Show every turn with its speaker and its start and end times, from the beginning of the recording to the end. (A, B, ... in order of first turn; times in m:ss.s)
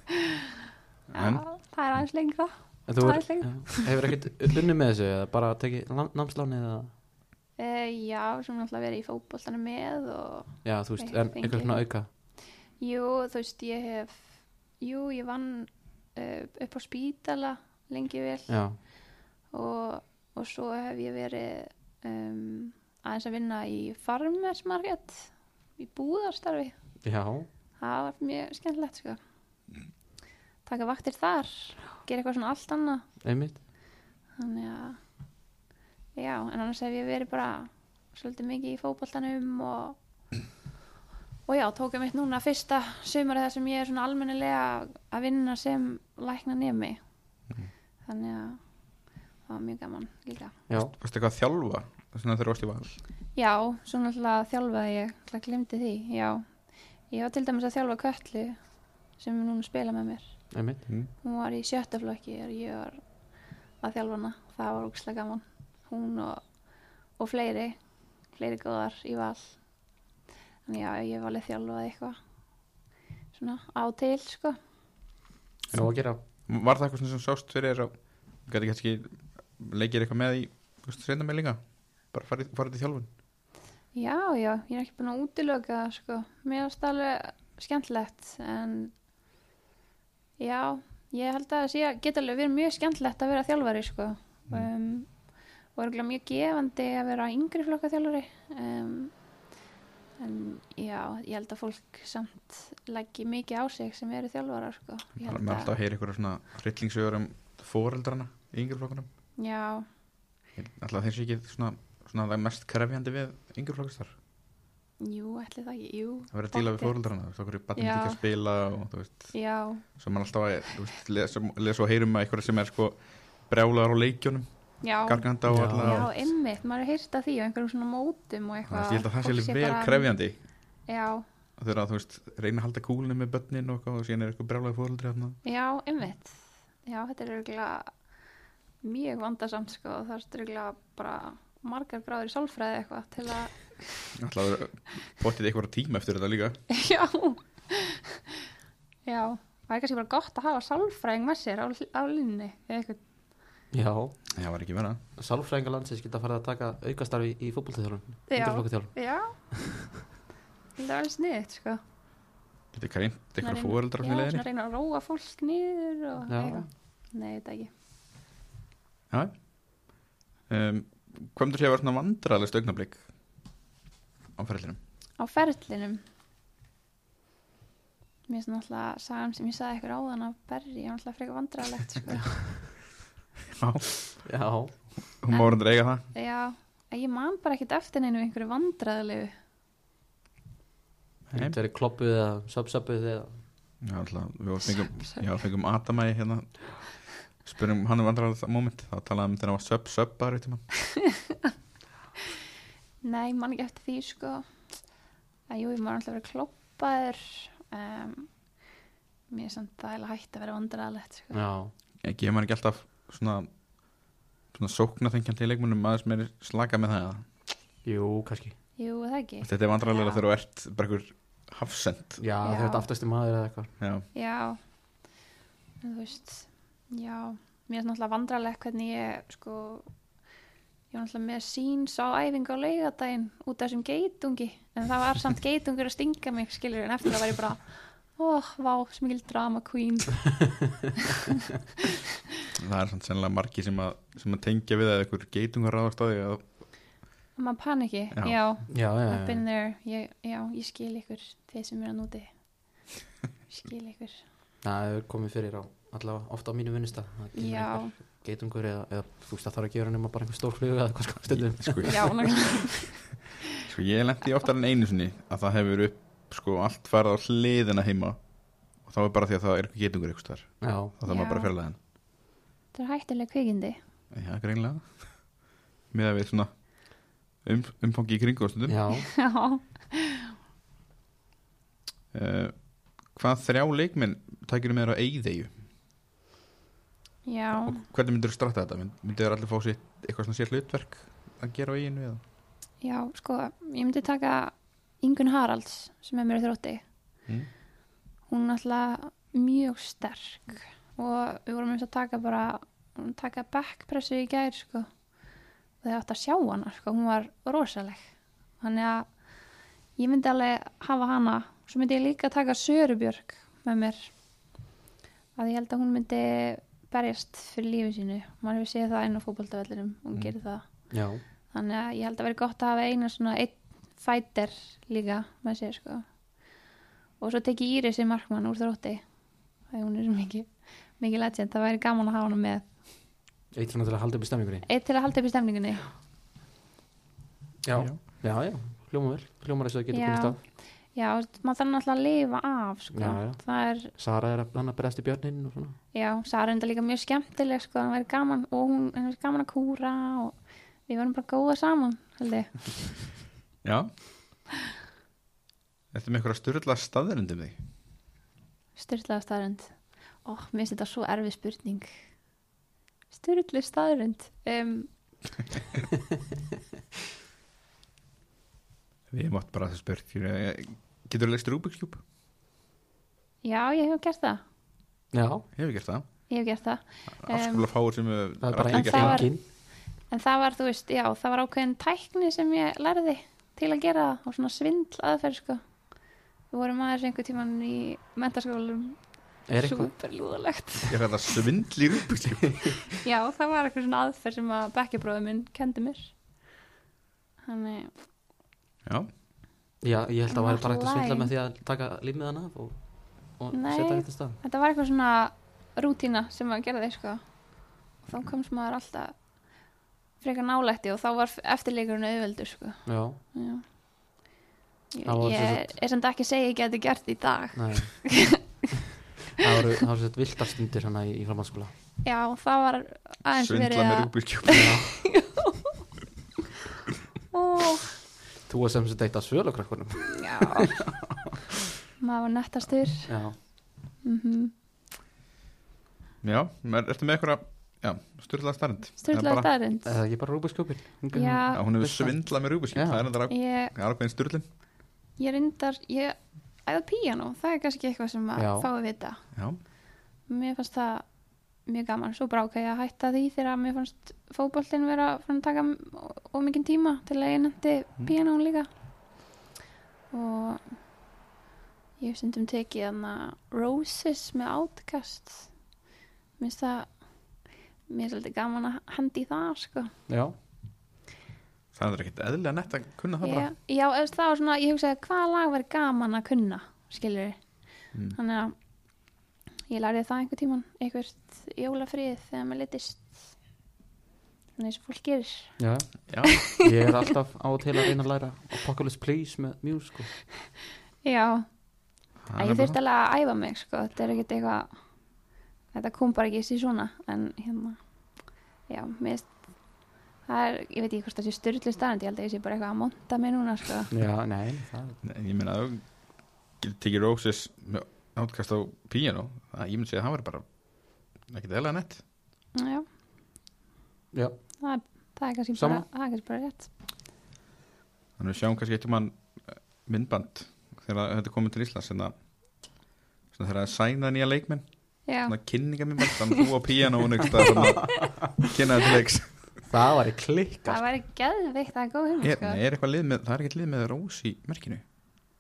0:01.1-0:01.4 A
0:01.1-0:03.9 B
0:02.9-0:06.9 C
0:07.6-0:12.1 B
0:10.6-0:12.1 C
0:12.8-0:18.8 B
0:18.5-0:18.8 C
0:19.5-0:26.7 B
0:27.0-0:27.5 C
0:27.8-0:29.2 B
0:30.6-0:33.0 B
0:33.2-0:33.6 C
0:34.4-0:35.0 B
0:36.1-0:40.0 B
0:41.5-0:47.0 B
0:48.0-0:48.6 B
0:49.4-0:50.6 B
0:50.8-0:53.0 A
0:53.3-0:56.5 B
0:57.1-0:58.6 B
0:59.2-1:00.4 B
1:00.5-1:00.8 C
1:01.2-1:03.0 B
1:03.8-1:06.4 B
1:07.2-1:07.8 B
1:08.3-1:09.6 B
1:10.6-1:12.2 B
1:13.3-1:14.6 B
1:15.7-1:16.2 C
1:16.5-1:21.6 A
1:22.1-1:23.1 A
1:23.9-1:28.9 B
1:30.4-1:35.1 B
1:35.8-1:39.1 B
1:40.2-1:45.7 B
1:45.2-1:49.1 A
1:49.4-1:49.9 B
1:50.6-1:54.1 A
1:55.0-1:56.9 B
1:56.3-1:59.3 A
1:57.8-1:58.2 B
1:59.3-1:59.8 B
1:59.8-2:06.1 A
2:04.8-2:10.1 B
2:05.4-2:06.1 C
2:08.7-2:10.4 A
2:10.9-2:11.2 B
2:11.6-2:15.4 A
2:15.4-2:17.9 B
2:18.8-2:23.8 B
2:24.1-2:26.6 A
2:26.7-2:28.4 B
2:29.0-2:33.0 B
2:33.7-2:34.2 C
2:34.3-2:35.0 A
2:35.2-2:38.9 C
2:38.3-2:39.3 B
2:39.5-2:39.8 C
2:40.8-2:41.8 B
2:42.7-2:44.4 A
2:43.4-2:47.7 B
2:46.3-2:46.7 C
2:49.1-2:49.4 A
2:50.5-2:53.0 A
2:54.4-2:54.8 A
2:55.2-2:56.0 B
2:58.3-3:02.6 B
3:03.5-3:04.2 A
3:04.2-3:04.8 C
3:05.2-3:06.0 A
3:05.3-3:09.3 B
3:11.3-3:11.6 A
3:11.3-3:13.4 C
3:13.8-3:16.9 A
3:17.4-3:20.6 A
3:23.0-3:24.5 B
3:25.5-3:28.3 B
3:29.3-3:31.4 B
3:31.3-3:31.7 C
3:32.0-3:33.5 A
3:34.5-3:37.2 A
3:37.8-3:38.6 C
3:38.8-3:40.2 B
3:39.4-3:42.2 A
3:42.2-3:43.7 C
3:42.4-3:42.8 B
3:43.8-3:44.1 A
3:44.1-3:44.6 B
3:45.8-3:49.9 B
3:50.9-4:00.6 B
4:02.6-4:06.4 A
4:07.4-4:12.3 B
4:08.1-4:08.4 A
4:08.7-4:09.4 C
4:13.5-4:14.2 B
4:14.6-4:22.2 C
4:17.4-4:17.9 B
4:21.3-4:22.2 A
4:21.8-4:23.0 B
4:23.6-4:28.2 A
4:28.8-4:31.8 A
4:30.6-4:30.9 C
4:31.0-4:31.5 B
4:32.7-4:33.8 B
4:34.1-4:35.2 A
4:35.9-4:36.6 A
4:37.4-4:38.8 A
4:38.7-4:39.1 C
4:38.9-4:40.3 B
4:42.1-4:45.5 A
4:47.2-4:47.8 B
4:47.5-4:52.2 A
4:52.8-4:56.8 B
4:58.3-5:04.9 B
5:05.8-5:08.0 B
5:08.6-5:09.1 B
5:10.0-5:14.1 B
5:15.4-5:26.0 B
5:20.9-5:21.2 C
5:27.2-5:29.0 B
5:29.7-5:32.6 B
5:33.5-5:34.6 C
5:34.6-5:35.9 B
5:37.6-5:40.4 C
5:39.9-5:43.9 B
5:42.9-5:45.8 C
5:45.9-5:50.4 B
5:50.9-5:52.9 B
5:53.6-5:53.9 A
5:55.9-5:57.6 A
5:58.8-6:01.9 B
6:03.1-6:04.9 B
6:09.1-6:12.0 A
6:13.4-6:14.4 B
6:15.1-6:15.4 C
6:15.5-6:16.0 A
6:16.3-6:17.6 B
6:17.2-6:19.3 A
6:18.4-6:19.4 C
6:18.7-6:19.4 B
6:20.1-6:25.6 B
6:26.5-6:31.0 B
6:29.5-6:29.9 C
6:30.9-6:32.8 A
6:33.0-6:36.1 B
6:37.4-6:37.9 B
6:38.8-6:39.1 A
6:39.8-6:44.4 C
6:40.3-6:41.3 B
6:43.5-6:49.2 B
6:50.2-6:53.6 B
6:52.8-6:53.2 C
6:54.9-6:58.4 B
6:55.0-6:55.7 C
6:57.5-6:58.0 C
6:59.4-7:01.7 C
7:02.0-7:05.7 B
7:03.4-7:04.8 A
7:04.5-7:05.0 C
7:07.3-7:07.9 B
7:08.5-7:10.8 C
7:10.1-7:10.8 B
7:12.0-7:13.4 B
7:13.1-7:13.4 C
7:14.0-7:14.5 B
7:16.2-7:19.5 A
7:19.0-7:20.0 B
7:19.8-7:23.0 C
7:21.1-7:21.6 B
7:21.5-7:24.5 A
7:23.3-7:23.7 B
7:25.2-7:29.2 B
7:28.4-7:28.7 C
7:30.3-7:31.0 B
7:31.6-7:38.7 B
7:40.1-7:40.7 B
7:42.0-7:45.5 B
7:46.4-7:47.3 B
7:47.9-7:49.9 B
7:50.1-7:50.3 C
7:51.7-7:53.5 A
7:53.2-7:57.4 B
7:58.1-7:58.5 B
7:59.7-8:03.2 B
8:04.6-8:05.6 B
8:05.6-8:10.2 C
8:06.1-8:06.4 A
8:06.3-8:06.5 B
8:11.0-8:11.5 B
8:12.2-8:12.8 A
8:12.4-8:14.8 B
8:15.7-8:17.8 B
8:18.7-8:19.5 B
8:20.2-8:23.9 B
8:23.9-8:25.0 C
8:25.0-8:26.0 A
8:26.5-8:32.0 A
8:32.5-8:32.8 B
8:34.1-8:34.4 C
8:34.6-8:36.7 B
8:35.5-8:35.8 C
8:38.2-8:42.1 A
8:43.3-8:49.5 A
8:45.0-8:45.4 B
8:46.0-8:46.4 B
8:47.6-8:48.3 C
8:49.6-8:50.8 C
8:50.6-8:52.6 B
8:52.2-8:54.8 A